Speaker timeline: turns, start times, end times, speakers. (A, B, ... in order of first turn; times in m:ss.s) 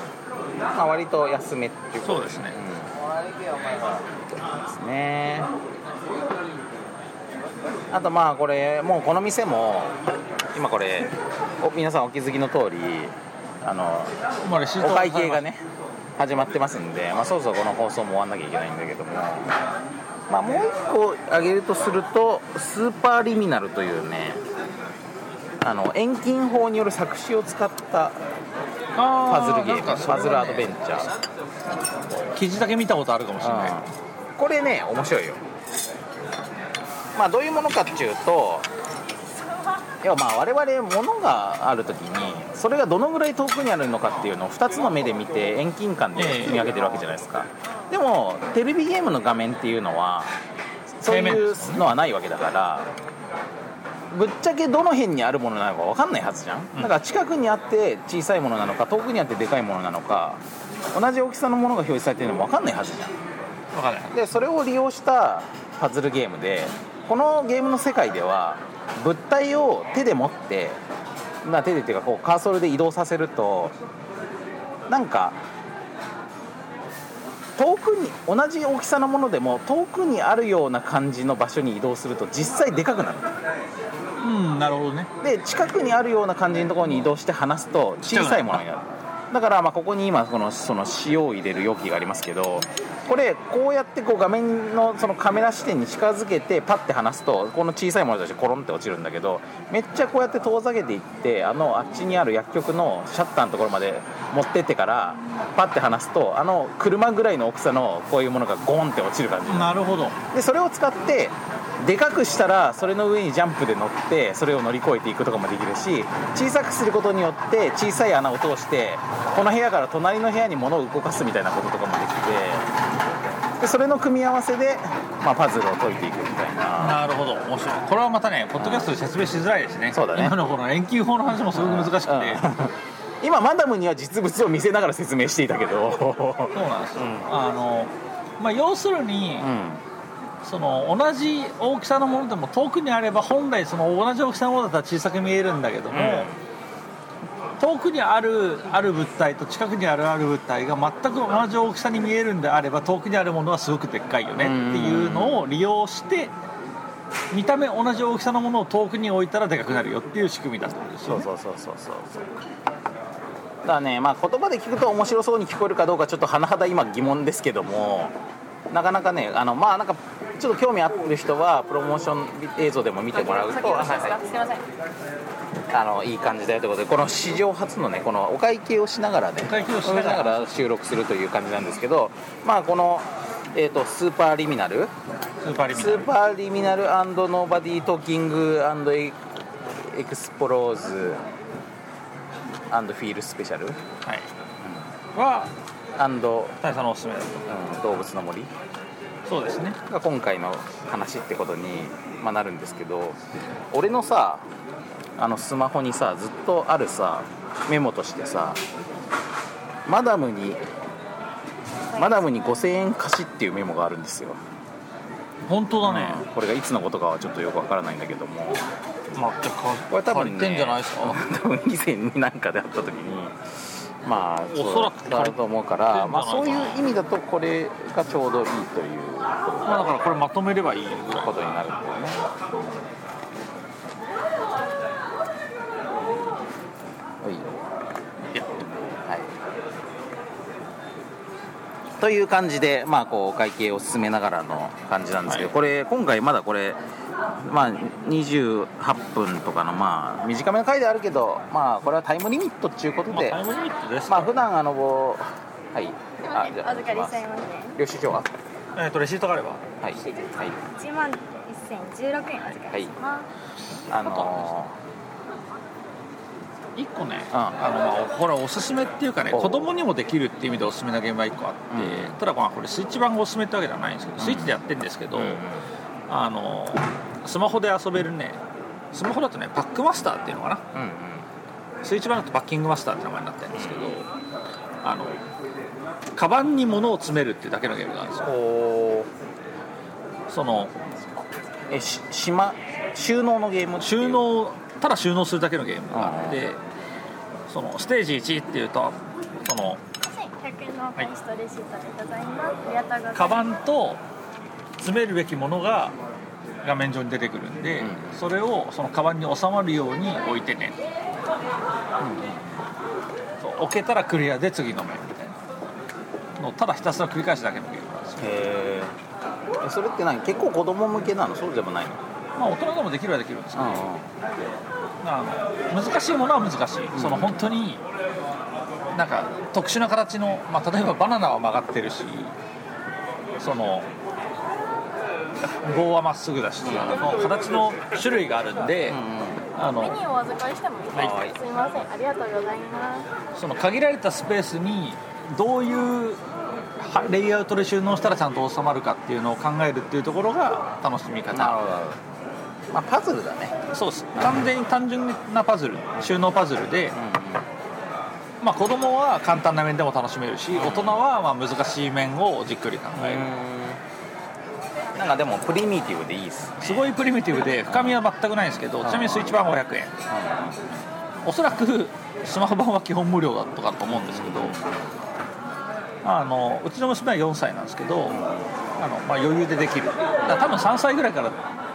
0:00.7-0:03.0 A
0:02.0-0:02.6 B
0:04.2-0:05.5 A
0:07.9-0:10.0 A
0:10.5-0:14.2 A
0:14.4-0:15.4 B
0:14.8-0:15.6 A
0:16.2-0:19.6 A
0:20.3-0:24.4 A
0:25.6-0:28.2 A
0:29.0-0:30.8 B
0:29.3-0:31.1 A
0:32.1-0:33.9 B
0:33.4-0:35.4 A
0:37.2-0:38.7 A
0:40.0-0:50.3 A
0:46.2-0:46.7 B
0:51.0-0:52.9 A
0:51.0-0:51.9 B
0:54.1-1:00.4 A
1:00.9-1:03.2 A
1:03.7-1:04.2 B
1:04.1-1:10.8 A
1:11.4-1:13.8 A
1:14.9-1:15.4 A
1:17.6-1:23.4 A
1:24.2-1:25.1 B
1:25.2-2:02.7 A
1:28.0-1:28.6 B
1:49.5-1:50.2 B
2:03.6-2:07.0 A
2:06.8-2:12.5 B
2:08.6-2:08.9 A
2:09.9-2:10.4 A
2:11.5-2:17.3 A
2:16.5-2:19.5 B
2:19.4-2:19.8 A
2:20.4-2:26.3 B
2:25.9-2:26.4 A
2:27.6-2:36.3 B
2:34.4-2:35.5 A
2:37.3-2:41.3 B
2:41.0-2:42.3 A
2:43.6-2:48.2 A
2:48.7-2:54.2 A
2:53.2-2:54.6 C
2:55.7-3:04.9 A
2:59.4-3:00.5 B
3:05.4-3:06.1 B
3:05.7-3:11.2 A
3:12.7-3:13.8 A
3:14.6-3:14.9 A
3:15.1-3:15.5 B
3:16.0-3:16.6 A
3:16.6-3:17.5 B
3:17.5-3:18.5 A
3:19.3-3:19.8 B
3:19.8-3:23.2 A
3:23.7-3:24.5 A
3:25.2-3:28.6 A
3:29.9-3:30.6 A
3:31.9-3:34.4 A
3:32.0-3:32.4 C
3:35.5-3:36.2 B
3:35.8-3:38.7 A
3:39.1-3:41.2 B
3:39.9-3:43.4 A
3:44.0-3:49.8 A
3:44.5-3:46.9 B
3:49.6-3:51.6 B
3:51.2-3:52.9 A
3:57.2-3:57.6 A
3:58.3-3:58.8 B
3:58.9-3:59.4 A
4:02.0-4:06.8 A
4:05.3-4:05.5 B
4:07.4-4:13.4 A
4:13.1-4:14.4 B
4:14.1-4:18.3 A
4:16.2-4:17.8 C
4:18.8-4:19.6 B
4:19.8-4:20.6 A
4:20.0-4:23.3 C
4:22.6-4:23.0 A
4:23.9-4:24.8 A
4:24.0-4:24.5 B
4:26.8-4:35.4 B
4:27.3-4:27.6 A
4:29.3-4:29.7 A
4:31.7-4:32.2 A
4:34.2-4:35.6 A
4:36.1-4:38.4 B
4:38.9-4:40.6 B
4:40.7-4:41.3 A
4:41.8-4:44.1 B
4:43.5-4:44.0 A
4:44.8-4:45.2 B
4:46.2-4:48.3 B
4:48.2-4:49.1 A
4:50.3-4:50.7 B
4:51.7-4:54.2 A
4:53.8-4:56.6 B
4:55.9-4:56.5 A
4:57.5-4:59.8 B
5:00.0-5:03.5 C
5:03.1-5:04.0 B
5:04.8-5:06.0 B
5:06.6-5:10.8 B
5:07.8-5:08.2 A
5:12.0-5:12.5 A
5:13.4-5:15.4 B
5:16.4-5:18.4 B
5:18.2-5:19.0 A
5:19.6-5:22.0 A
5:22.4-5:23.9 B
5:23.6-5:24.1 A
5:25.0-5:27.8 B
5:26.9-5:27.5 A
5:28.9-5:32.3 B
5:33.4-5:33.9 B
5:35.4-5:39.0 B
5:36.6-5:37.1 A
5:38.9-5:39.5 A
5:39.6-5:40.0 B
5:39.8-5:43.1 C
5:40.9-5:41.4 A
5:43.4-5:46.2 B
5:46.8-5:51.6 B
5:51.3-5:52.0 A
5:52.7-5:53.6 A
5:53.7-5:57.0 B
5:54.2-5:54.5 A
5:56.9-5:57.5 A
5:58.4-6:03.3 B
6:00.5-6:01.0 A
6:02.9-6:03.8 A
6:05.0-6:06.9 A
6:06.6-6:10.0 B
6:07.7-6:08.0 A
6:08.8-6:09.4 A
6:10.1-6:10.7 A
6:11.2-6:14.6 B
6:13.8-6:14.9 A
6:16.0-6:18.2 B
6:18.1-6:18.5 A
6:18.8-6:21.4 B